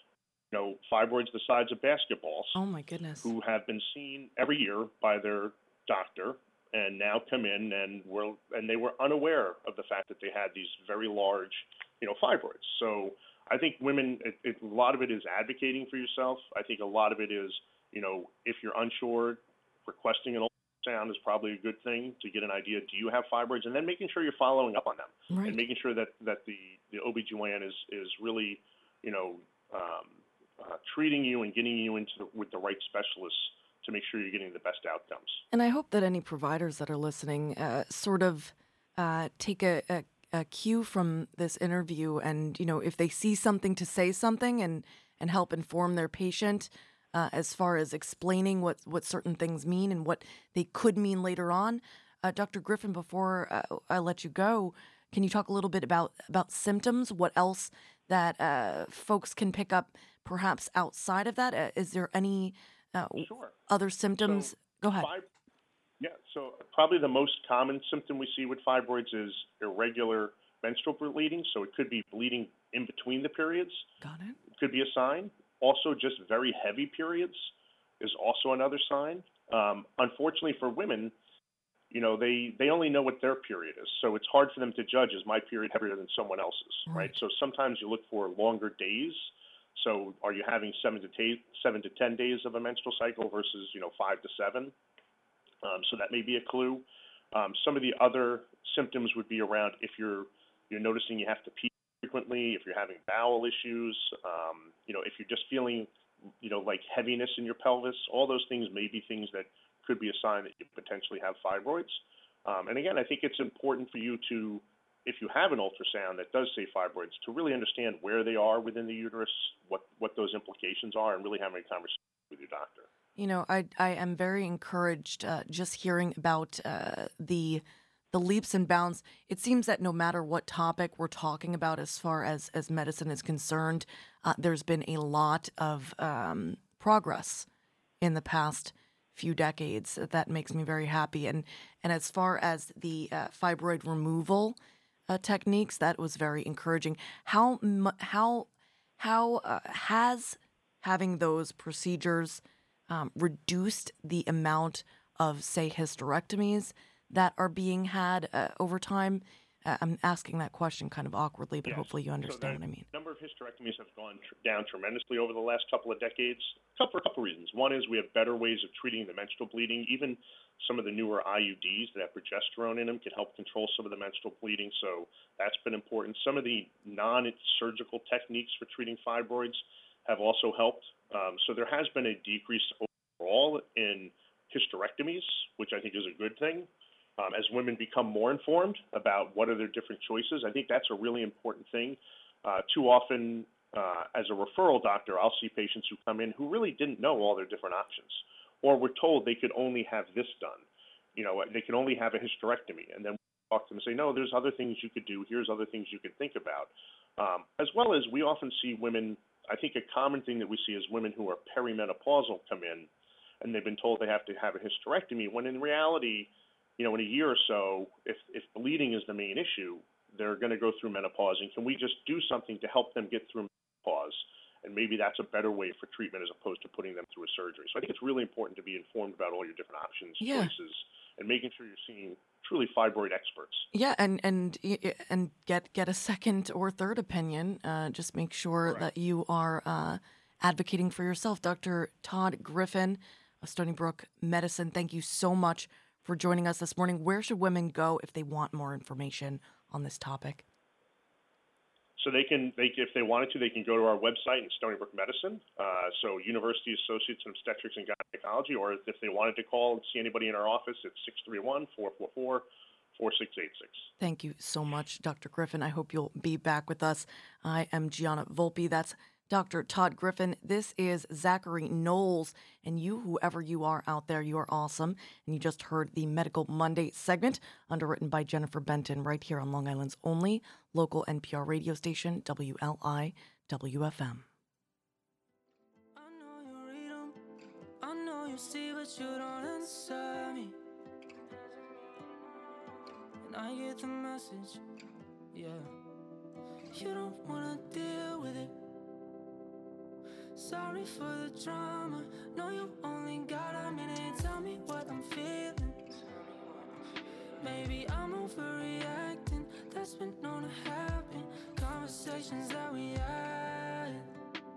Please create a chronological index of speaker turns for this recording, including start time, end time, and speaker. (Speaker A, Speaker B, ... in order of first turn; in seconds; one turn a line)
Speaker A: 0.5-2.6
Speaker B: 2.5-3.3
Speaker A: 3.2-35.4
Speaker B: 25.3-25.6
Speaker B: 35.5-65.1
Speaker A: 63.2-63.6
Speaker A: 64.2-65.3
Speaker A: 66.0-73.8
Speaker B: 74.0-74.4
Speaker A: 74.6-81.1
Speaker A: 81.9-94.7
Speaker B: 86.9-87.2
Speaker A: 95.6-105.9
Speaker A: 106.4-122.9
Speaker B: 123.2-137.5
Speaker B: 138.0-144.6
Speaker B: 145.1-162.9
Speaker A: 161.7-212.9
Speaker A: 213.4-233.7
Speaker B: 230.2-230.5
Speaker B: 233.7-250.4
Speaker A: 252.0-263.9
Speaker B: 264.0-284.3
Speaker C: 286.0-287.2
Speaker C: 287.8-290.6
Speaker C: 293.2-294.6
Speaker C: 295.3-295.7
Speaker C: 296.7-298.5
Speaker C: 300.4-305.9
Speaker C: 307.4-314.1